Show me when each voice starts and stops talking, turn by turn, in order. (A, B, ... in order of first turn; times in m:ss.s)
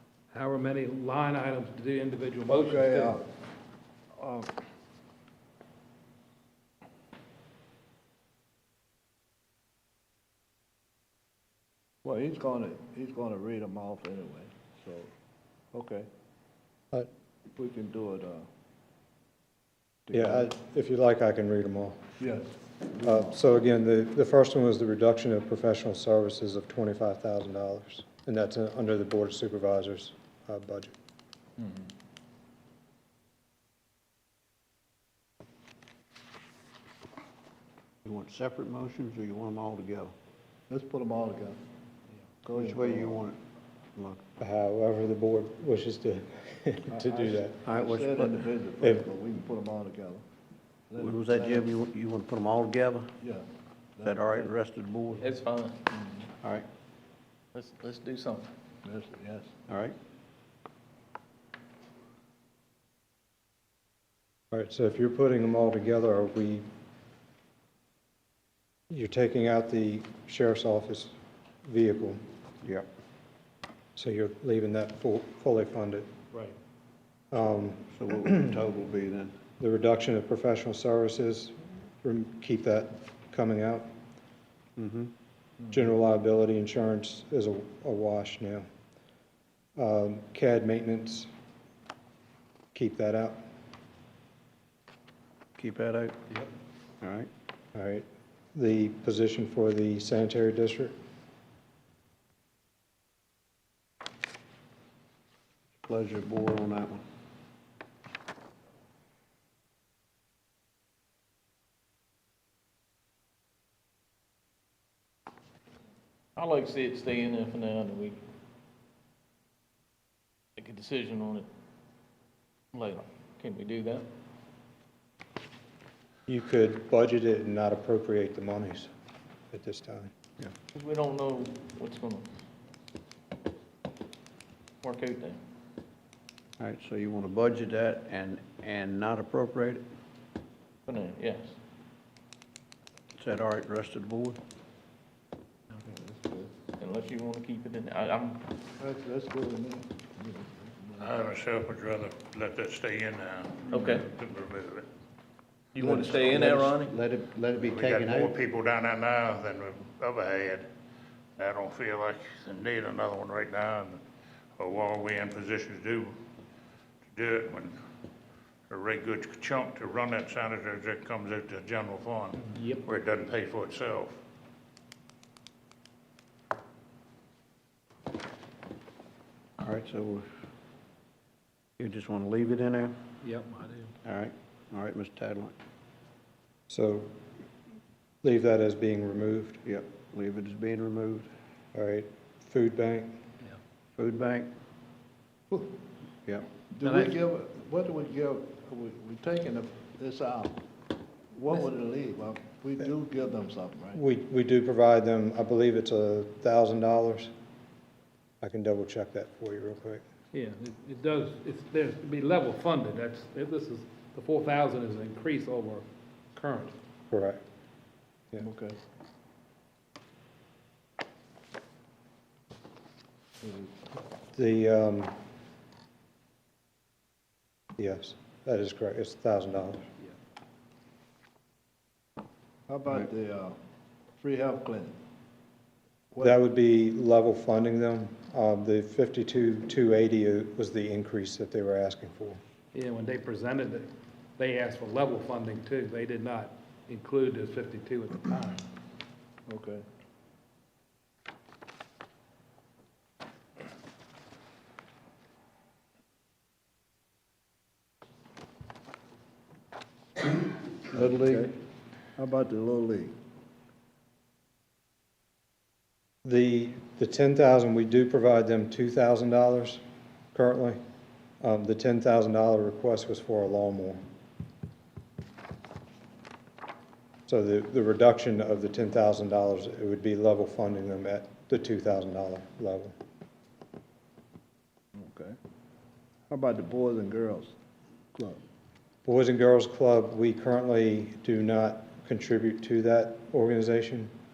0:00.3-0:03.2 A
0:02.5-0:03.2 B
0:04.2-0:04.5 B
0:12.0-0:15.1 B
0:15.7-0:16.1 B
0:17.6-0:18.4 B
0:20.1-0:20.5 B
0:20.1-0:22.0 C
0:22.2-0:23.4 B
0:23.0-0:30.9 C
0:38.0-0:40.1 D
0:40.7-0:41.6 B
0:42.4-0:43.2 B
0:42.5-0:43.4 D
0:43.9-0:44.2 D
0:44.4-0:47.6 C
0:46.9-0:50.2 B
0:47.7-0:48.5 D
0:50.9-0:51.7 B
0:51.0-0:53.1 D
0:53.2-0:53.4 B
0:54.0-0:54.5 B
0:54.0-0:55.3 D
0:55.2-0:55.8 E
0:55.9-0:56.3 B
0:56.4-0:56.6 D
0:57.5-0:58.5 E
0:58.8-0:59.6 B
0:59.7-1:00.0 D
1:04.5-1:06.6 C
1:08.9-1:11.1 C
1:11.6-1:12.2 C
1:14.0-1:16.1 C
1:17.3-1:18.5 C
1:17.9-1:19.4 D
1:19.6-1:23.9 C
1:24.8-1:25.1 D
1:25.7-1:28.6 C
1:29.8-1:31.3 C
1:32.7-1:33.5 C
1:35.6-1:36.2 D
1:37.0-1:37.3 D
1:37.7-1:41.0 C
1:45.8-1:47.0 D
1:56.4-1:58.2 E
2:00.6-2:01.5 E
2:02.7-2:04.0 E
2:06.3-2:08.9 C
2:09.5-2:10.1 C
2:10.7-2:12.3 E
2:14.8-2:15.4 E
2:16.6-2:19.8 D
2:20.9-2:21.5 E
2:23.2-2:24.4 D
2:25.8-2:26.5 B
2:26.8-2:28.4 E
2:28.8-2:31.1 B
2:31.0-2:34.9 F
2:33.7-2:34.1 E
2:35.7-2:37.0 E
2:35.8-2:38.3 D
2:35.8-2:36.5 B
2:37.5-2:40.7 F
2:41.4-2:44.0 F
2:44.6-2:46.1 F
2:47.1-2:47.8 F
2:48.7-2:54.2 F
2:52.4-2:52.8 A
2:59.6-3:00.2 D
3:01.8-3:03.0 D
3:03.2-3:03.9 A
3:04.0-3:05.5 D
3:06.7-3:07.1 C
3:08.2-3:09.6 C
3:09.6-3:11.3 D
3:11.7-3:13.2 C
3:14.0-3:14.5 D
3:16.7-3:20.6 B
3:16.8-3:17.1 A
3:21.3-3:24.0 B
3:23.9-3:27.3 C
3:28.4-3:30.0 C
3:30.3-3:36.7 A
3:37.1-3:37.4 C
3:38.4-3:38.8 B
3:43.4-3:43.7 B
3:44.3-3:45.2 C
3:47.8-3:49.8 C
3:52.7-3:53.6 B
3:54.2-3:55.0 B
3:56.2-4:02.4 C
4:02.7-4:08.6 A
4:09.5-4:09.8 B
4:20.9-4:21.5 B
4:22.2-4:23.1 B
4:26.2-4:29.8 C
4:30.3-4:30.8 C
4:31.4-4:34.0 C
4:37.3-4:42.9 C
4:44.9-4:45.4 B
4:46.3-4:47.5 B
4:48.1-4:48.4 B
4:49.0-4:54.1 C